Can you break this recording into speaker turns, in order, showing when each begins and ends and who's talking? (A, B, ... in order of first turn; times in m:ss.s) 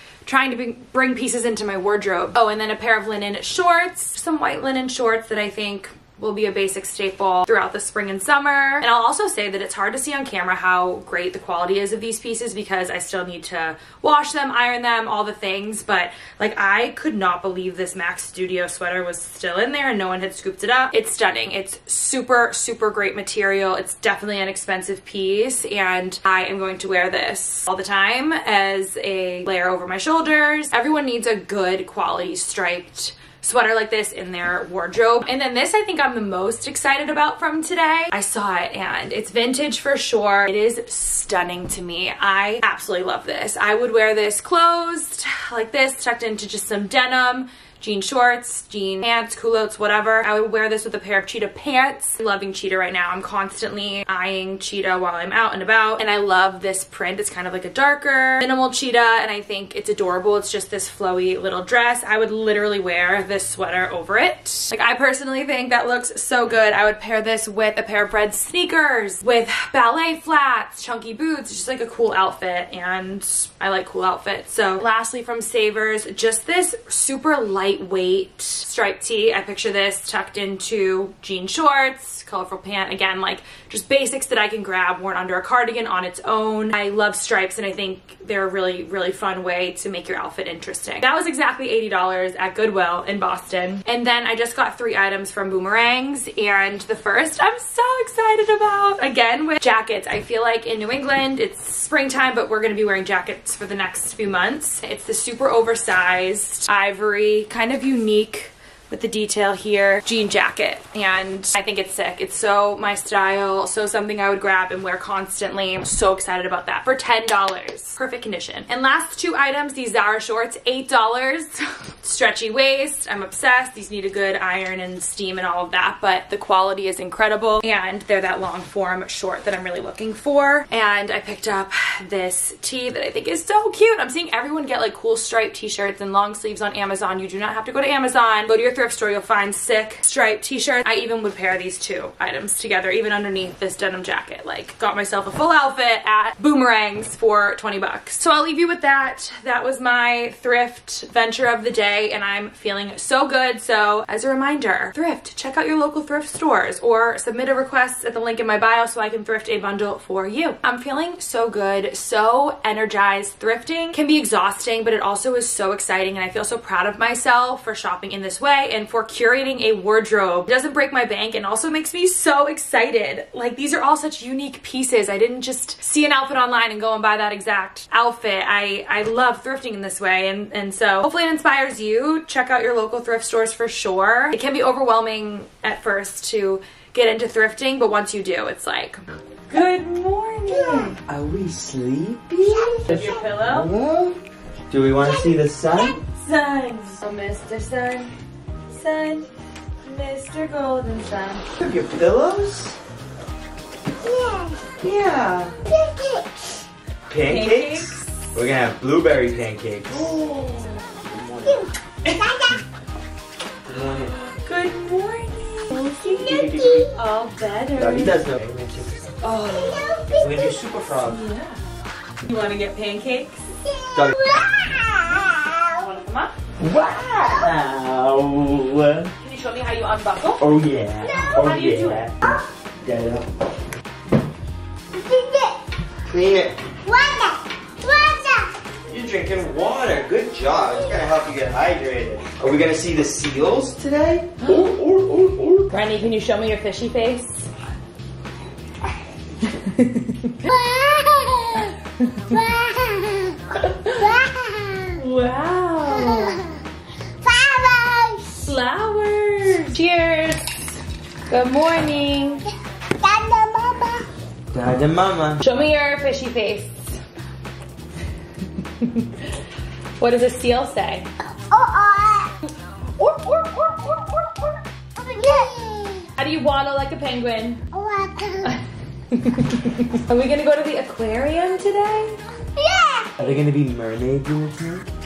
0:00.2-3:11.0 A
3:10.5-3:10.9 B
3:11.0-3:14.2 C
3:12.4-3:13.2 B
3:12.8-3:13.7 A
3:14.7-3:16.0 C
3:16.1-3:18.1 A
3:18.7-3:19.3 A
3:19.8-3:21.4 A
3:21.6-3:22.8 C
3:24.0-3:24.7 B
3:24.8-3:25.6 C
3:25.6-3:26.5 B
3:27.1-3:30.1 C
3:27.2-3:28.4 A
3:29.9-3:30.9 A
3:31.1-3:31.6 C
3:31.5-3:32.6 B
3:32.1-3:32.4 A
3:33.6-3:34.1 C
3:34.1-3:38.2 A
3:36.0-3:37.0 B
3:36.2-3:36.9 C
3:37.8-3:39.2 C
3:39.2-3:39.9 A
3:39.4-3:40.6 B
3:40.2-3:41.2 C
3:41.0-3:41.6 A
3:42.2-3:43.5 A
3:43.6-3:45.6 B
3:45.8-3:47.5 A
3:46.6-3:49.1 C
3:49.2-3:52.1 A
3:50.4-3:53.3 C
3:51.1-3:51.4 B
3:54.9-3:55.6 B
3:56.1-3:56.6 C
3:56.8-3:58.6 B
3:58.9-4:05.7 C
4:05.7-4:07.5 A
4:09.5-4:10.4 A
4:10.5-4:11.7 B
4:12.3-4:15.0 B
4:13.6-4:14.1 A
4:15.0-4:16.4 A
4:15.9-4:16.6 B
4:17.2-4:18.4 B
4:18.4-4:22.4 A
4:23.0-4:24.1 B
4:24.5-4:25.4 C
4:25.4-4:27.0 A
4:28.8-4:29.3 A
4:30.0-4:31.1 A
4:31.4-4:32.4 B
4:33.0-4:35.4 A
4:35.1-4:36.1 B
4:36.2-4:37.6 A
4:37.7-4:38.6 B
4:38.4-4:42.2 A
4:42.6-4:43.1 B
4:43.2-4:44.9 C